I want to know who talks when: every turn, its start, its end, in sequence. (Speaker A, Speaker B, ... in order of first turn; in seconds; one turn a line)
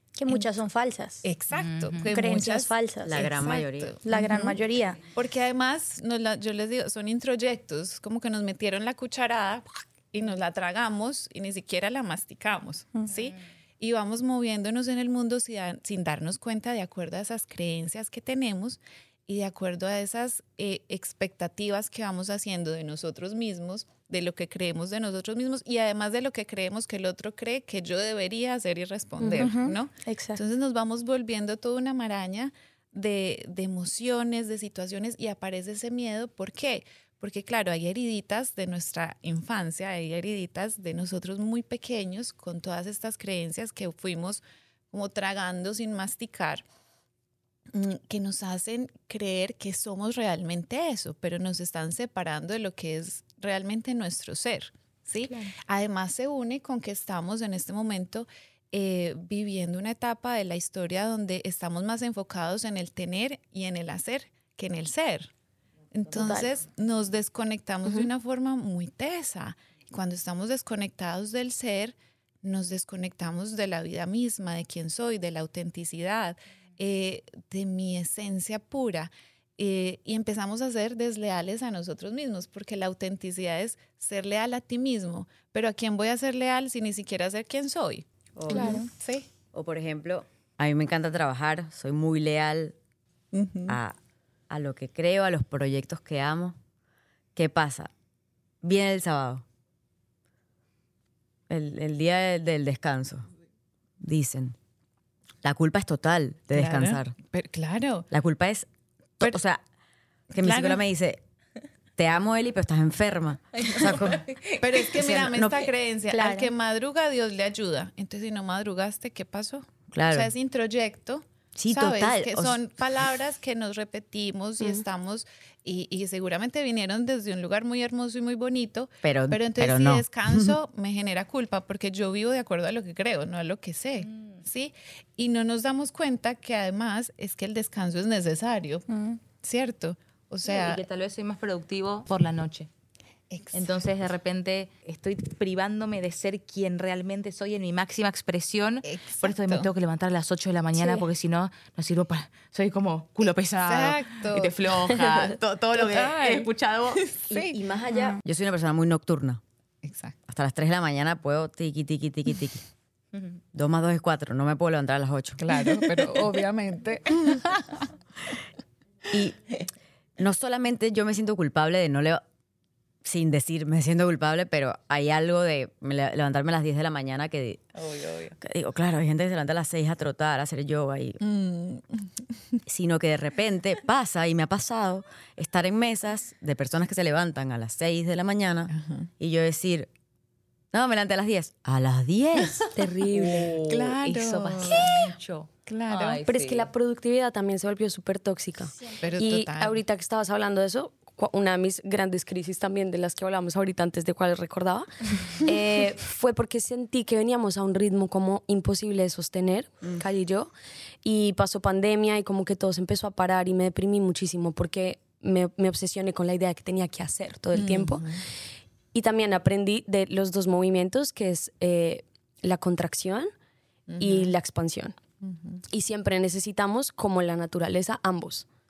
Speaker A: 0.2-1.3
Speaker B: 1.2-4.6
Speaker C: 1.5-2.1
Speaker A: 2.1-3.4
Speaker D: 3.0-4.0
Speaker A: 4.0-5.0
Speaker B: 5.1-46.6
Speaker E: 29.2-29.5
Speaker A: 29.4-30.4
Speaker B: 47.7-65.3
Speaker B: 65.9-89.3
Speaker E: 66.2-66.5
Speaker D: 88.4-88.8
Speaker A: 88.5-88.9
Speaker D: 89.5-92.8
Speaker B: 93.3-93.8
Speaker D: 93.7-94.0
Speaker D: 94.5-96.6
Speaker D: 97.3-97.9
Speaker D: 98.6-99.5
Speaker D: 101.5-103.3
Speaker D: 104.0-104.6
Speaker D: 105.4-107.2
Speaker B: 106.5-108.1
Speaker D: 108.1-108.7
Speaker D: 109.2-109.6
Speaker D: 110.3-111.2
Speaker B: 110.4-110.8
Speaker D: 112.0-114.3
Speaker C: 113.6-114.9
Speaker B: 114.6-138.9
Speaker D: 114.9-115.7
Speaker A: 116.1-116.5
Speaker D: 119.9-120.3
Speaker D: 121.6-122.6
Speaker D: 129.0-130.6
Speaker C: 134.1-134.4
Speaker A: 138.9-139.2
Speaker B: 139.4-140.8
Speaker C: 140.5-142.7
Speaker B: 143.3-143.9
Speaker C: 143.5-157.1
Speaker B: 148.8-149.7
Speaker B: 153.6-154.7
Speaker B: 155.8-157.6
Speaker D: 157.3-159.4
Speaker A: 157.9-158.2
Speaker B: 159.8-160.2
Speaker D: 160.3-162.6
Speaker D: 163.5-165.4
Speaker B: 165.4-167.9
Speaker D: 169.1-169.4
Speaker D: 170.2-172.2
Speaker D: 173.0-177.7
Speaker C: 177.8-178.4
Speaker D: 178.4-181.2
Speaker B: 181.2-182.6
Speaker D: 182.7-189.9
Speaker B: 188.7-189.1
Speaker D: 190.7-192.7
Speaker E: 192.7-193.6
Speaker C: 193.1-196.7
Speaker B: 193.4-195.1
Speaker B: 195.7-196.2
Speaker E: 196.2-210.5
Speaker B: 199.0-199.8
Speaker E: 211.0-218.2
Speaker B: 217.5-218.2
Speaker E: 218.9-223.3
Speaker B: 223.9-224.3
Speaker E: 224.0-225.0
Speaker B: 225.2-225.6
Speaker E: 225.7-228.5